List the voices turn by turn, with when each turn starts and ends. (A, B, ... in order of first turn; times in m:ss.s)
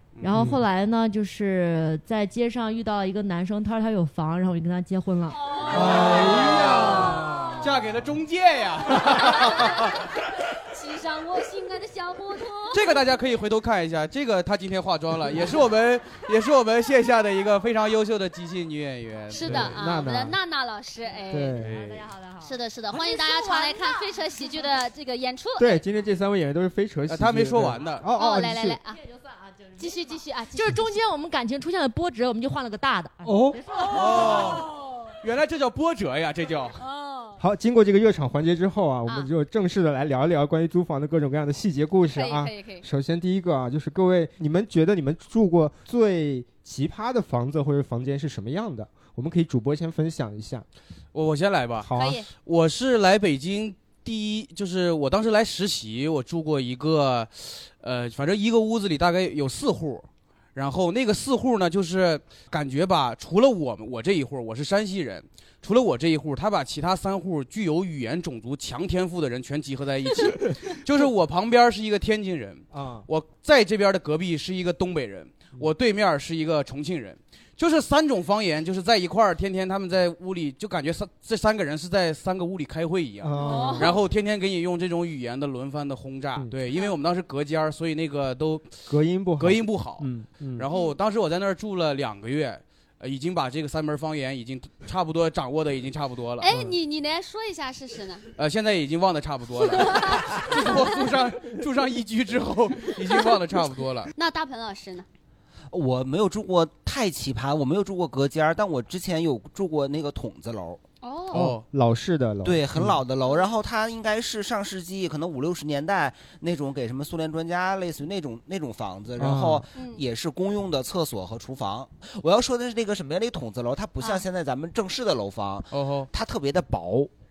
0:00.2-0:00.5 A
0:00.2-0:05.6 B
0:00.3-0:00.6 C
0:05.3-0:07.3 D
0:05.6-0:09.6 A
0:05.7-0:07.6 C
0:09.1-0:10.2 D
0:10.7-0:12.8 D
0:12.7-0:19.7 A
0:19.3-0:21.6 D
0:19.4-0:20.4 C
0:21.3-0:21.9 C
0:21.6-0:22.1 A
0:21.9-0:24.2 B
0:22.4-0:25.8 D
0:25.6-0:28.8 C
0:27.1-0:28.0 A
0:28.1-0:29.0 D
0:29.2-0:34.6 B
0:29.8-0:30.9 D
0:33.2-0:33.6 C
0:33.8-0:35.0 D
0:33.9-0:34.7 A
0:35.2-0:36.8 A
0:36.8-0:37.4 D
0:37.4-0:50.6 C
0:42.1-0:42.8 D
0:51.1-1:28.8 A
0:51.8-0:52.2 C
0:52.0-0:52.3 D
1:12.7-1:13.1 C
1:23.2-1:23.9 C
1:23.4-1:24.0 D
1:28.9-1:30.7 C
1:29.4-1:36.5 A
1:30.7-1:31.0 D
1:36.4-1:38.2 D
1:36.5-1:36.8 C
1:38.4-1:44.1 A
1:39.7-1:40.6 D
1:44.2-1:45.1 D
1:45.7-1:50.8 E
1:51.0-1:51.4 D
1:51.3-1:51.6 A
1:51.3-1:53.0 C
1:52.4-2:07.1 E
1:59.2-1:59.7 C
1:59.8-2:00.0 D
2:05.7-2:06.1 A